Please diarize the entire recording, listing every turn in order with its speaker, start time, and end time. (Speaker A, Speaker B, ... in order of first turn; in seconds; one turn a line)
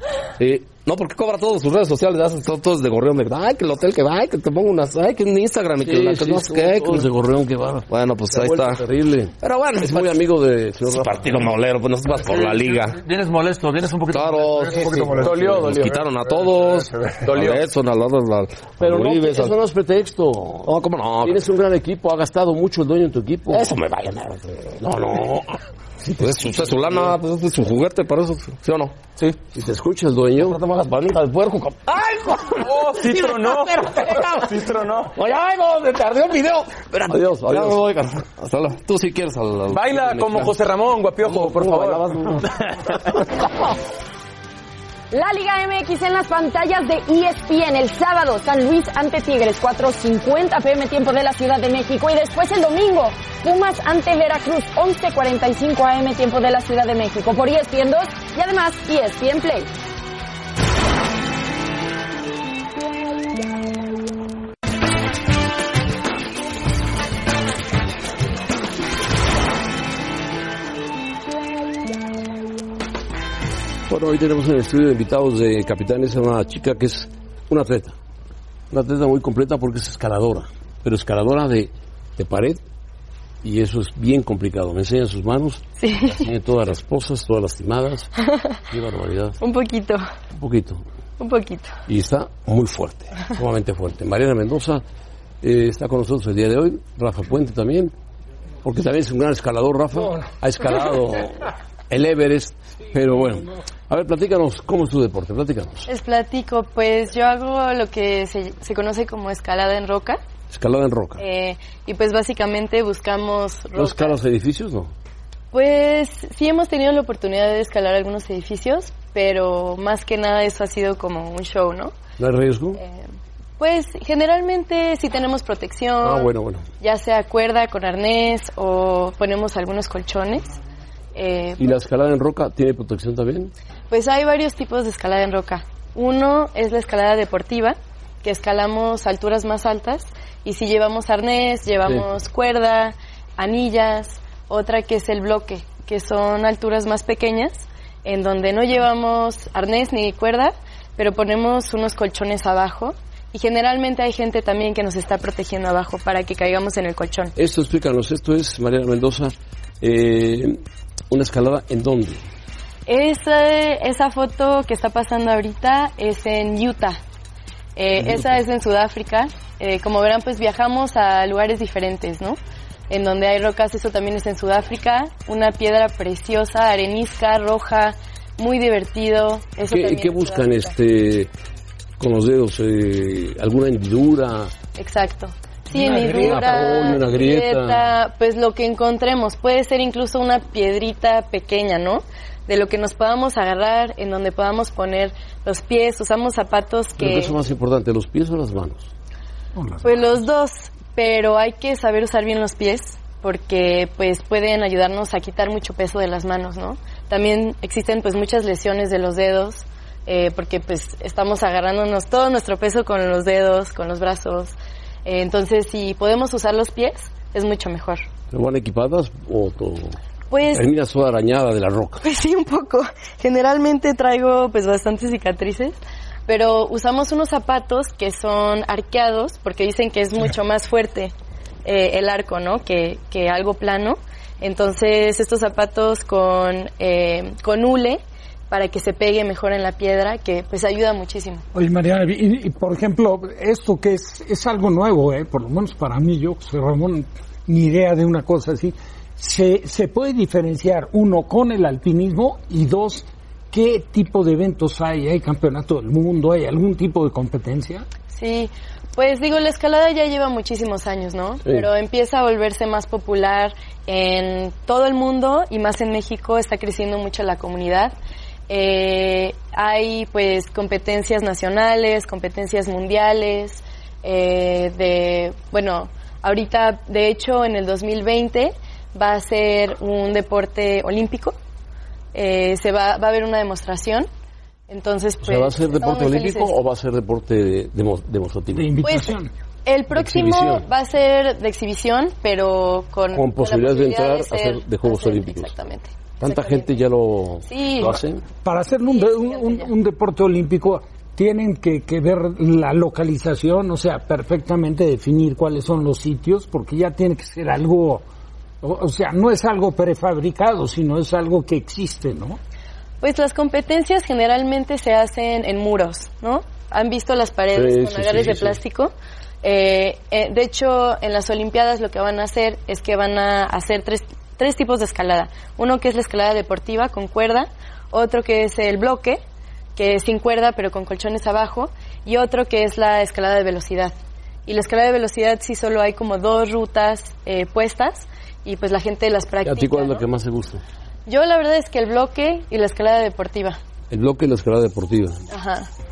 Speaker A: 0.4-7.1
Speaker B: 5.8-11.6
Speaker A: 7.9-8.8
Speaker A: 9.4-10.2
Speaker A: 10.8-13.0
Speaker C: 12.2-17.2
Speaker A: 14.1-19.6
Speaker D: 15.2-16.0
Speaker D: 17.2-17.6
Speaker B: 18.8-23.7
Speaker A: 20.6-21.4
Speaker A: 23.5-25.6
Speaker B: 26.0-27.2
Speaker A: 26.2-28.9
Speaker B: 29.5-30.6
Speaker A: 30.4-40.5
Speaker D: 32.6-35.1
Speaker B: 37.0-37.8
Speaker D: 39.7-43.2
Speaker A: 41.2-42.9
Speaker E: 45.1-59.7
Speaker B: 73.9-78.0
Speaker B: 78.7-82.6
Speaker B: 83.4-88.1
Speaker F: 85.8-86.3
Speaker F: 88.2-88.5
Speaker B: 88.7-89.4
Speaker F: 89.4-90.1
Speaker B: 90.3-90.8
Speaker F: 91.2-91.7
Speaker B: 91.9-94.8
Speaker B: 95.4-97.9
Speaker B: 98.6-105.9
Speaker F: 105.9-110.2
Speaker B: 110.5-111.2
Speaker F: 111.2-114.2
Speaker B: 113.7-114.9
Speaker F: 115.5-121.9
Speaker B: 122.2-122.8
Speaker F: 122.8-123.0
Speaker F: 123.6-126.3
Speaker B: 126.0-126.7
Speaker F: 126.8-130.5
Speaker F: 131.1-131.8
Speaker B: 131.6-133.5
Speaker F: 133.9-157.3
Speaker B: 157.4-162.2
Speaker F: 162.9-167.0
Speaker F: 167.8-172.4
Speaker B: 168.0-168.3
Speaker F: 172.9-180.7
Speaker B: 179.6-181.3
Speaker B: 182.0-184.5
Speaker F: 184.8-197.4
Speaker G: 185.7-186.6
Speaker B: 185.8-188.0
Speaker B: 197.0-198.9
Speaker G: 199.6-200.2
Speaker F: 199.8-218.1
Speaker B: 218.3-220.0
Speaker F: 220.3-220.7
Speaker B: 220.5-222.0
Speaker F: 222.0-231.1
Speaker F: 231.7-241.4
Speaker G: 241.5-257.8
Speaker F: 258.1-267.9
Speaker F: 268.5-281.4
Speaker F: 282.1-284.1
Speaker F: 284.7-286.6
Speaker B: 285.2-288.8
Speaker G: 288.6-289.3
Speaker F: 288.8-296.8
Speaker B: 289.9-290.6
Speaker B: 293.1-295.5
Speaker B: 296.2-298.2
Speaker F: 297.4-298.0
Speaker G: 298.4-308.0
Speaker F: 298.8-299.7
Speaker G: 308.6-312.4
Speaker F: 313.0-329.2
Speaker B: 317.5-318.6
Speaker F: 329.8-333.9
Speaker F: 334.4-340.0
Speaker B: 339.4-340.6
Speaker F: 341.1-343.6
Speaker B: 343.9-345.3
Speaker F: 345.3-345.7